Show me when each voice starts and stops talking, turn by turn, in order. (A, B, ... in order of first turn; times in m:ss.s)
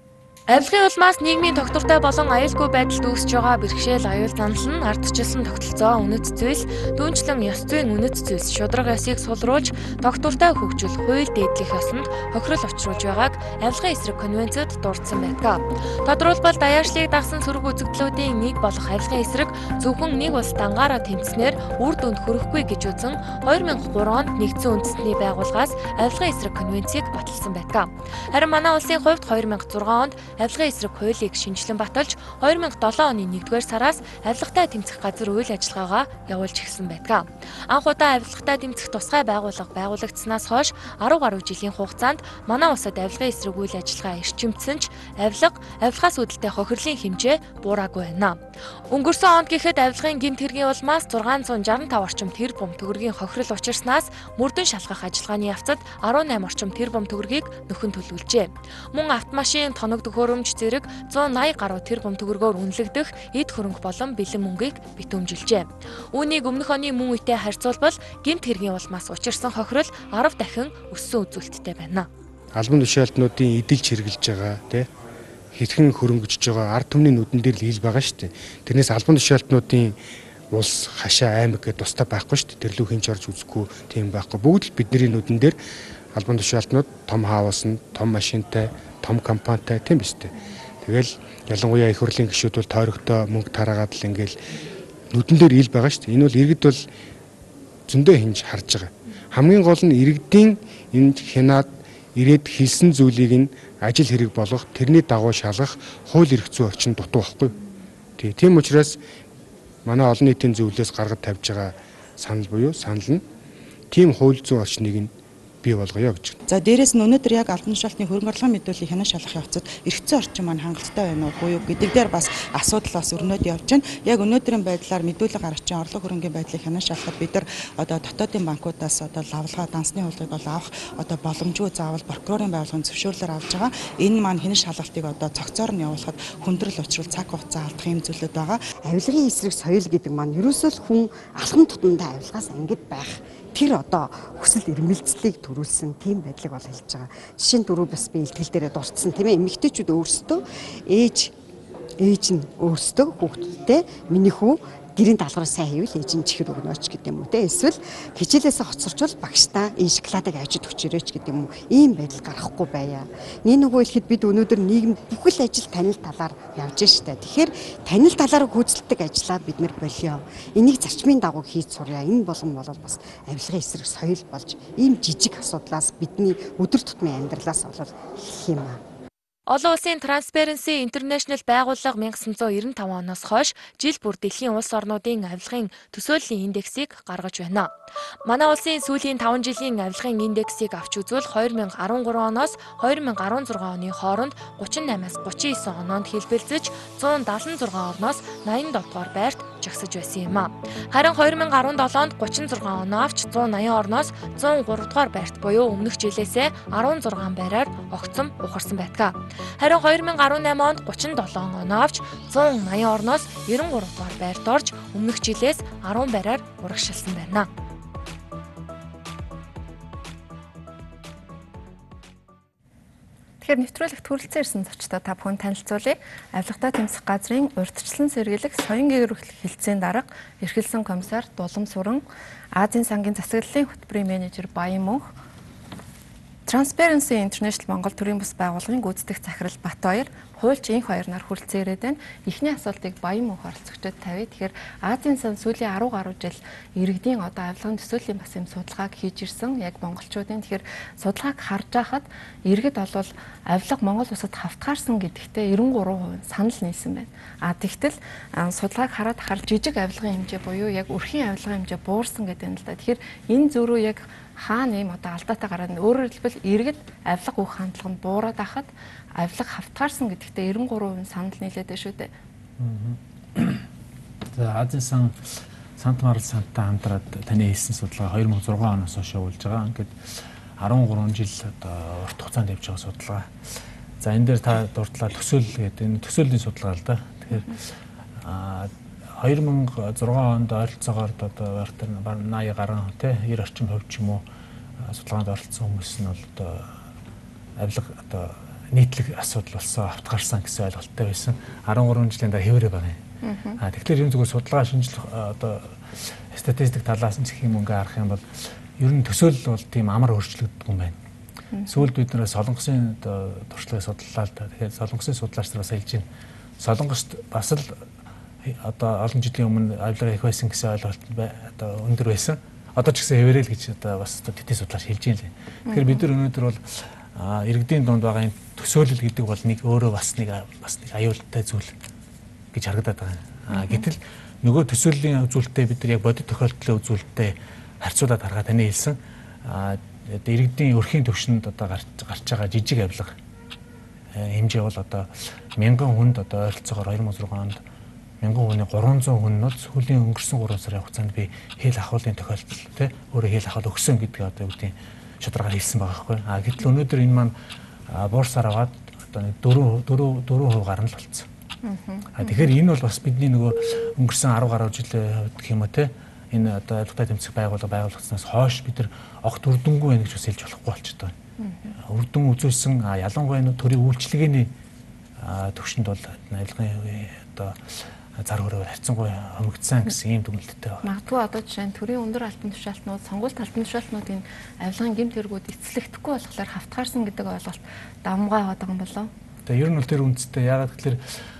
0:00.5-1:12.1 A
1:12.5-1:14.9 B
1:15.5-1:20.0 B
1:20.5-1:25.6 B
1:26.1-1:34.4 B
1:35.1-1:36.8 B
1:37.9-1:47.6 B
1:48.2-1:49.0 B
1:49.8-1:53.2 B
1:53.9-1:56.4 B
1:56.5-2:18.7 C
2:18.8-2:31.4 D
2:32.0-2:58.8 D
2:59.5-3:37.5 A
3:43.4-3:52.0 E
3:52.5-3:55.1 E
3:56.5-4:32.1 E
4:32.6-4:33.6 F
4:34.3-4:40.0 F
4:40.6-4:43.3 F
4:44.0-4:47.6 F
4:48.2-4:54.2 F
4:54.8-4:56.7 F
4:57.6-5:03.0 F
5:03.2-5:03.6 E
5:03.6-5:05.8 F
5:06.3-5:08.2 F
5:08.8-5:11.0 F
5:11.5-5:11.9 E
5:11.7-5:16.0 F
5:16.6-5:17.8 F
5:18.4-5:31.7 F
5:25.7-5:26.0 E
5:32.5-5:43.2 F
5:33.5-5:33.9 E
5:44.1-5:47.6 F
5:48.2-5:57.3 F
5:57.9-6:01.2 F
6:01.6-6:02.5 E
6:02.1-6:11.1 F
6:11.4-6:11.7 E
6:11.8-6:14.5 F
6:15.2-6:17.6 F
6:18.2-6:20.8 F
6:20.8-6:29.1 E
6:29.4-6:31.0 F